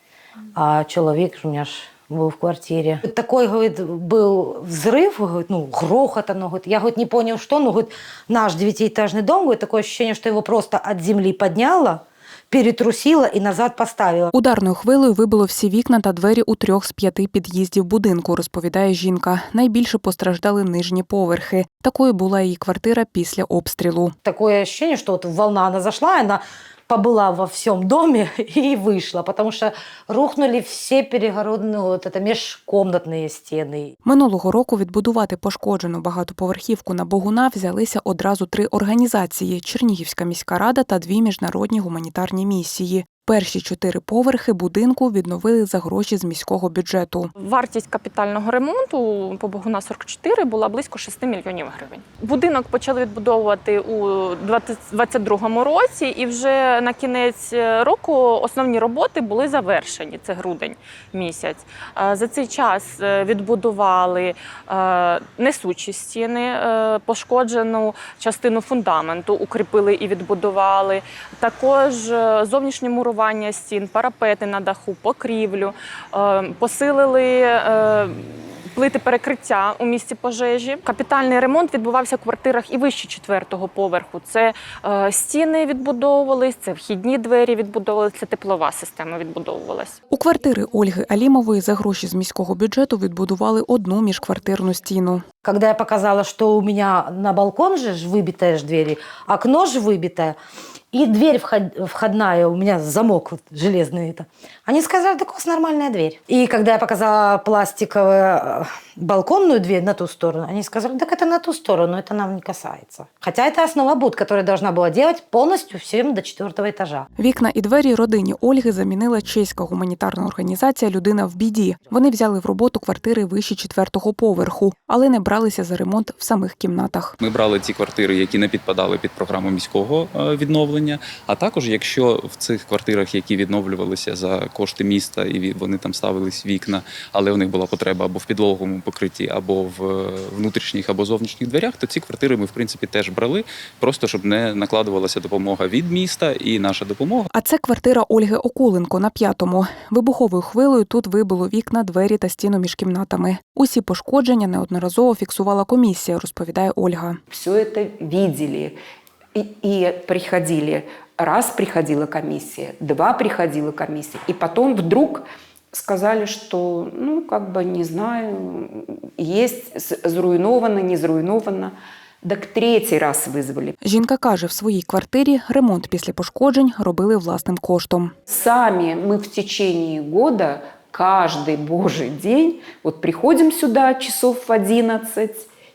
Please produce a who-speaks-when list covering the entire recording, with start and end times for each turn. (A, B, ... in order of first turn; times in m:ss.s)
0:00.5-0:14.3 A
0:14.3-0:24.1 B
0:24.2-0:33.9 A
0:34.0-0:47.3 B
0:47.4-1:30.0 C
1:30.1-1:35.2 B
1:35.4-1:40.4 A
1:40.9-1:57.1 A
1:57.2-2:07.2 B
2:07.2-2:27.3 D
2:27.3-2:37.2 B
2:37.3-2:38.8 E
2:39.3-2:53.8 E
2:53.8-2:58.1 B
2:58.3-3:05.5 E